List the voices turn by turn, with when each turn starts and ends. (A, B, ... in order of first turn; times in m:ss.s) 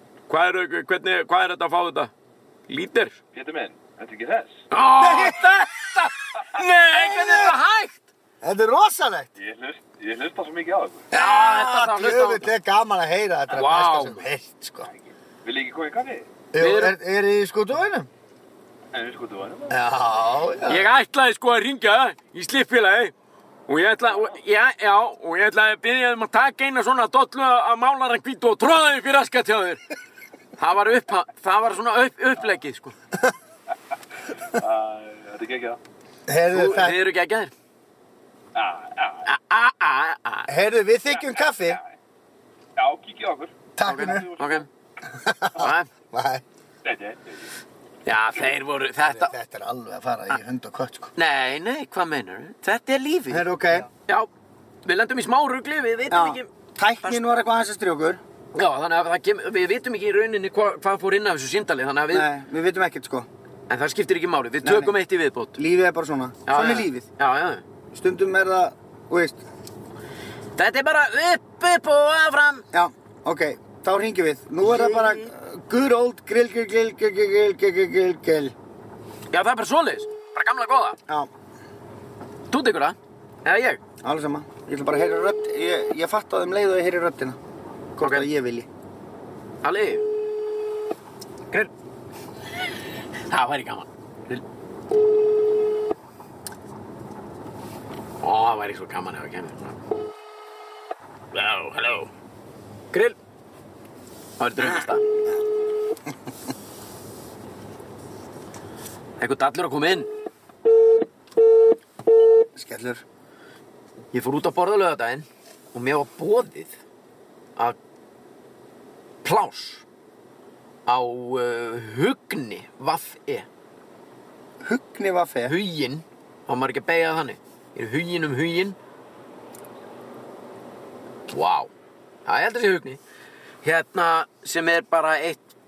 0:00.3-0:02.1 A
0:02.7-0:03.2 A
0:03.3-0:04.6 B
0:04.7-0:08.0 A
0:05.0-0:05.5 C
0:06.9-0:07.5 C
0:08.4-0:09.3 C
0:09.4-0:11.1 B
0:11.1-0:14.9 C
0:11.1-0:12.5 A
0:13.5-0:14.2 A
0:15.4-0:16.3 B
0:16.5-0:18.1 C
0:16.6-0:17.0 A
0:18.9-0:19.8 B
0:19.7-0:20.8 C
0:20.6-0:23.1 A
0:23.7-0:29.8 A
0:30.6-0:32.9 A
0:34.5-0:35.8 B
0:36.3-0:37.0 C
0:36.5-0:37.5 A
0:38.5-0:39.3 B
0:39.2-0:40.5 A
0:40.5-0:41.8 C
0:41.1-0:41.9 B
0:42.8-0:44.7 B
0:43.8-0:44.3 C
0:43.8-0:44.7 A
0:45.1-0:46.4 C
0:45.6-0:45.9 A
0:46.8-0:47.5 B
0:48.0-0:49.3 A
0:49.0-0:51.1 C
0:51.2-0:54.3 A
0:53.3-0:53.9 C
0:54.8-0:56.5 A
0:56.1-0:58.2 C
0:58.5-1:02.3 A
1:02.1-1:03.3 C
1:03.7-1:05.6 A
1:04.6-1:04.9 C
1:05.5-1:07.0 C
1:06.5-1:07.6 A
1:07.9-1:09.4 C
1:10.6-1:12.6 A
1:12.7-1:18.5 C
1:14.6-1:15.3 A
1:19.3-1:21.0 A
1:22.5-1:23.8 A
1:24.0-1:27.4 C
1:28.0-1:28.7 C
1:28.0-1:28.3 A
1:29.6-1:30.1 A
1:33.3-1:34.4 A
1:38.2-1:39.8 A
1:41.3-1:42.1 A
1:42.9-1:43.2 A
1:44.4-1:45.0 A
1:49.2-1:50.1 A
1:52.6-1:53.0 C
1:54.1-1:56.8 A
1:59.2-1:59.8 A
2:00.8-2:03.5 A
2:04.6-2:05.5 C
2:05.4-2:08.8 A
2:11.3-2:11.7 A
2:12.2-2:13.0 A
2:13.6-2:15.5 A